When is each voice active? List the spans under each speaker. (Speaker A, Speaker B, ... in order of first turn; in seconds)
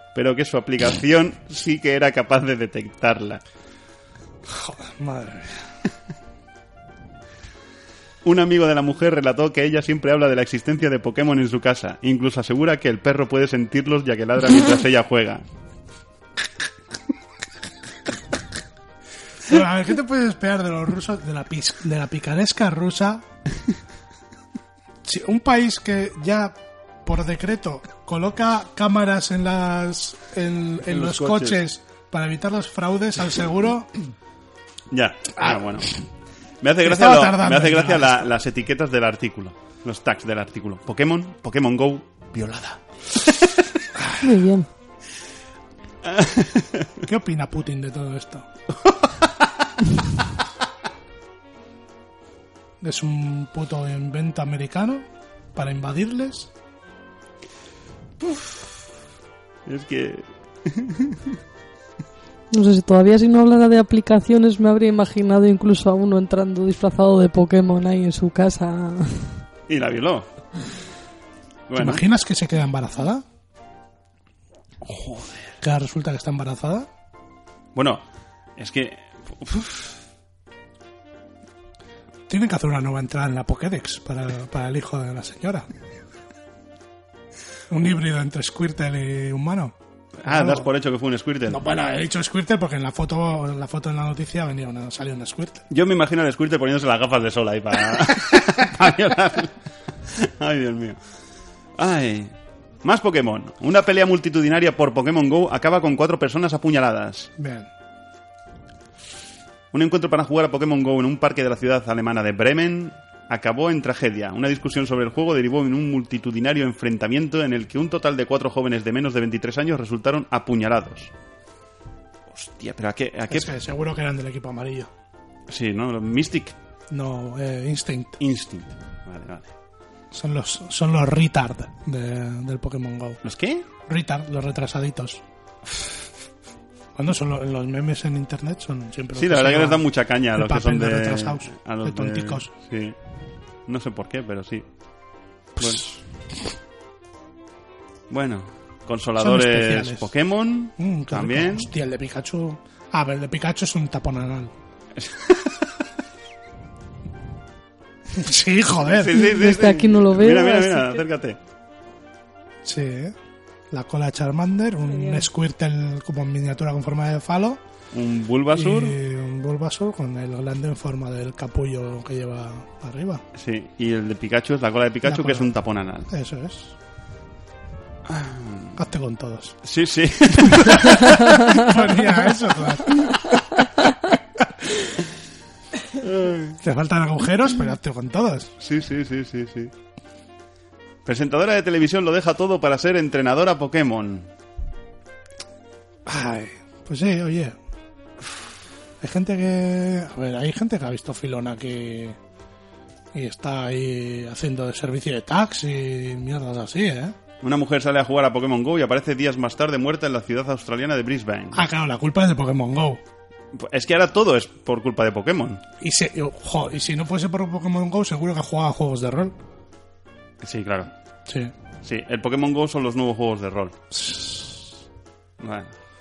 Speaker A: 0.1-3.4, 8.2-15.4, 30.9-31.6, 34.9-35.9, 36.6-43.5, 46.0-46.9, 58.2-58.5, 59.6-61.4, 69.7-70.3, 71.7-72.0, 74.8-75.4, 77.7-78.0, 78.6-80.0, 90.2-91.6, 95.7-99.5, 100.1-101.0, 101.8-107.3, 109.7-121.1, 122.3-123.5, 125.5-126.5, 128.2-129.5, 133.2-133.7, 139.1-142.9, 143.7-144.6, 145.6-145.8, 148.1-151.7, 154.9-155.6, 158.8-161.4, 167.9-169.0, 173.3-176.1, 178.1-178.8, 179.6-181.2, 185.9-186.6, 188.6-189.7, 191.0-194.3, 207.4-211.7, 213.5-215.6, 220.4-220.9, 221.8-223.8, 225.4-225.7
Speaker B: 4.5-5.6, 19.4-23.2, 25.0-33.9, 36.8-38.3, 44.0-44.2, 47.0-48.4, 52.8-55.0, 55.5-56.5, 71.8-73.2, 75.6-76.9, 82.3-85.7, 87.7-90.7, 91.5-95.6, 107.4-107.7, 123.3-124.9, 126.9-128.2, 130.1-133.2, 133.9-135.2, 136.9-142.5, 145.6-146.0, 149.2-150.1, 150.8-154.5, 158.1-159.2, 162.6-163.1, 163.7-167.6, 168.5-173.2, 175.0-175.5, 176.1-176.7, 178.7-179.6, 180.6-183.1, 186.6-188.5, 196.1-197.6, 199.0-202.2, 203.1-207.1, 211.5-213.0, 215.8-219.3, 221.3-221.5, 223.9-224.7
Speaker C: 44.2-44.7, 62.5-69.4, 159.1-161.0, 164.9-165.2